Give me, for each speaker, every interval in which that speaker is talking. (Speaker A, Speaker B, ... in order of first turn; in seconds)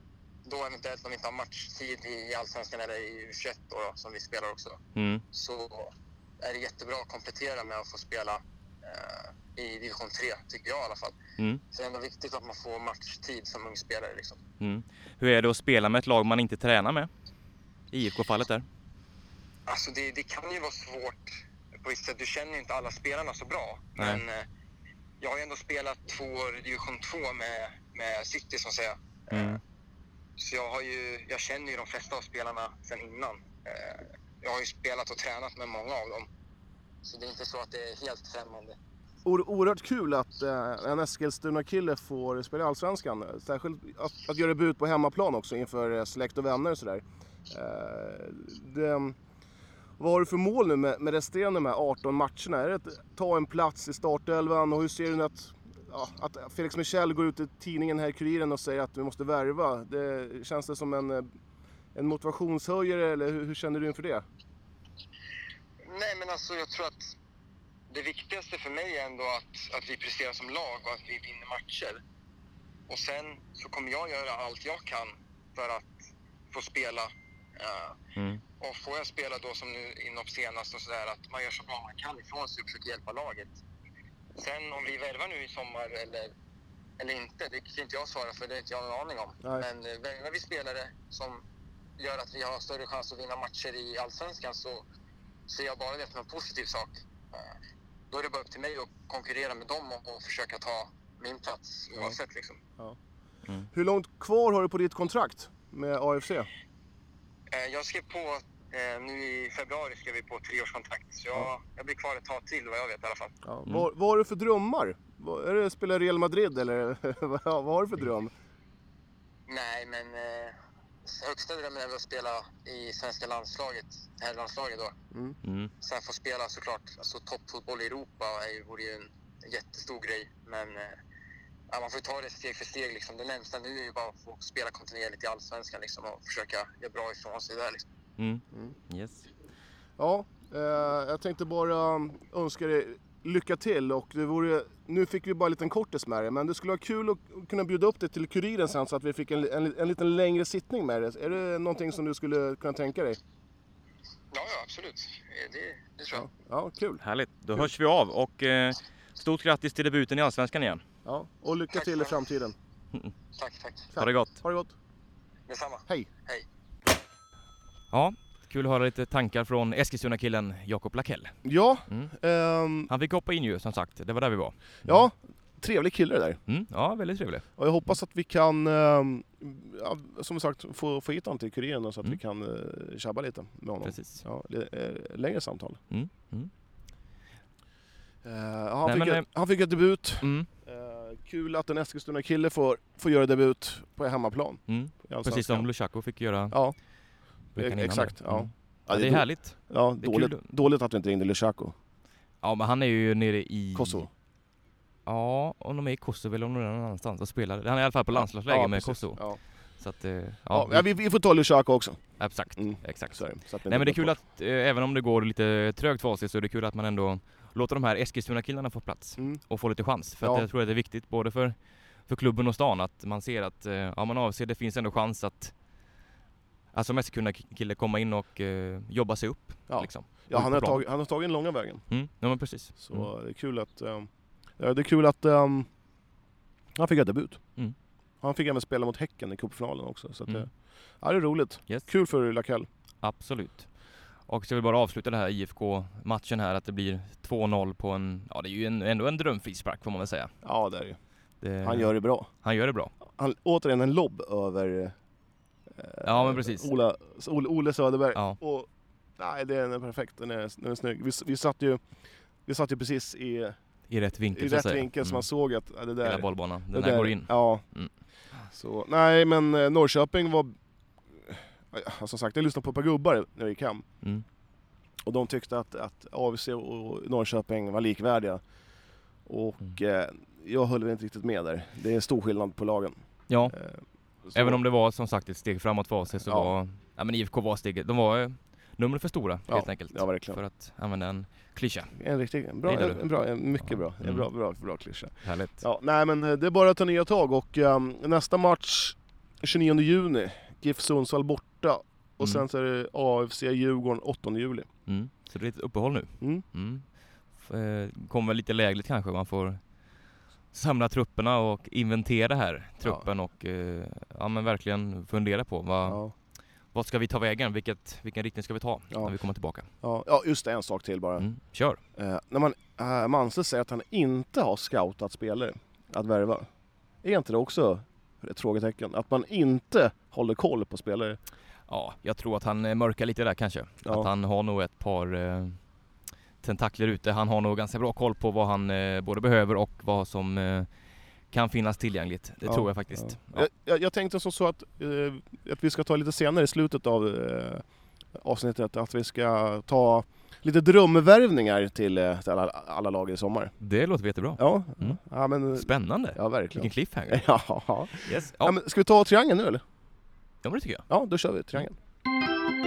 Speaker A: 0.4-4.8, 5.3-11.2, 11.7-14.4, 19.7-24.4, 25.2-29.6, 30.4-36.3, 37.0-38.8, 65.8-67.1, 67.9-72.0, 72.9-78.0, 78.6-83.6, 84.3-86.3, 87.0-91.4, 92.0-94.8, 95.5-97.5, 98.1-102.6, 107.5-113.3, 119.5-124.9, 125.8-131.0, 131.7-137.8, 154.3-156.2, 161.7-162.2, 163.3-163.9, 165.5-166.4
Speaker B: 4.9-5.2, 14.6-17.1, 17.9-18.6, 24.0-24.2, 29.3-29.6, 78.2-78.4, 125.4-125.7, 138.2-139.3, 157.0-160.8, 164.0-164.4, 167.9-171.3, 172.9-175.0, 176.5-177.4, 183.8-184.2, 185.9-186.5, 188.8-189.2, 190.2-190.5, 194.7-196.6, 197.6-200.5, 202.4-204.1, 205.1-209.2, 209.8-210.9, 212.2-225.5, 226.7-230.8, 231.9-233.1, 243.0-243.7, 244.3-250.3, 251.4-252.9, 256.0-256.7, 263.9-265.2, 266.0-267.9, 283.3-283.5, 284.3-291.9, 292.6-293.0, 293.6-294.3, 295.2-295.6, 304.9-306.8, 307.4-309.6, 310.5-316.0, 316.7-319.7, 321.2-321.8, 331.7-335.6, 336.4-340.7, 341.3-343.4, 353.6-355.0, 355.5-357.3, 358.0-358.6, 360.4-360.9
Speaker C: 39.2-49.1, 50.0-61.3, 61.9-64.2, 103.7-106.5, 113.5-118.3, 140.0-153.2, 156.1-157.0, 161.0-162.5, 163.9-164.7, 171.4-172.9, 174.8-176.4, 177.6-185.8, 188.2-195.7, 196.5-196.8, 197.6-201.7, 203.7-204.1, 208.2-209.4, 210.5-212.0, 212.6-214.2, 229.7-231.8, 232.8-235.7, 236.8-237.4, 238.2-240.5, 241.0-242.7, 250.4-251.0, 251.6-252.3, 253.1-254.9, 255.7-261.8, 262.4-263.6, 264.3-267.6, 268.5-270.5, 271.2-273.8, 275.0-278.4, 279.2-282.9, 283.4-284.6, 286.2-286.5, 289.5-290.4, 291.9-304.7, 315.9-316.1, 319.8-321.3, 321.9-326.5, 327.0-331.2, 342.4-347.6, 348.2-353.5, 354.4-359.6, 360.9-361.7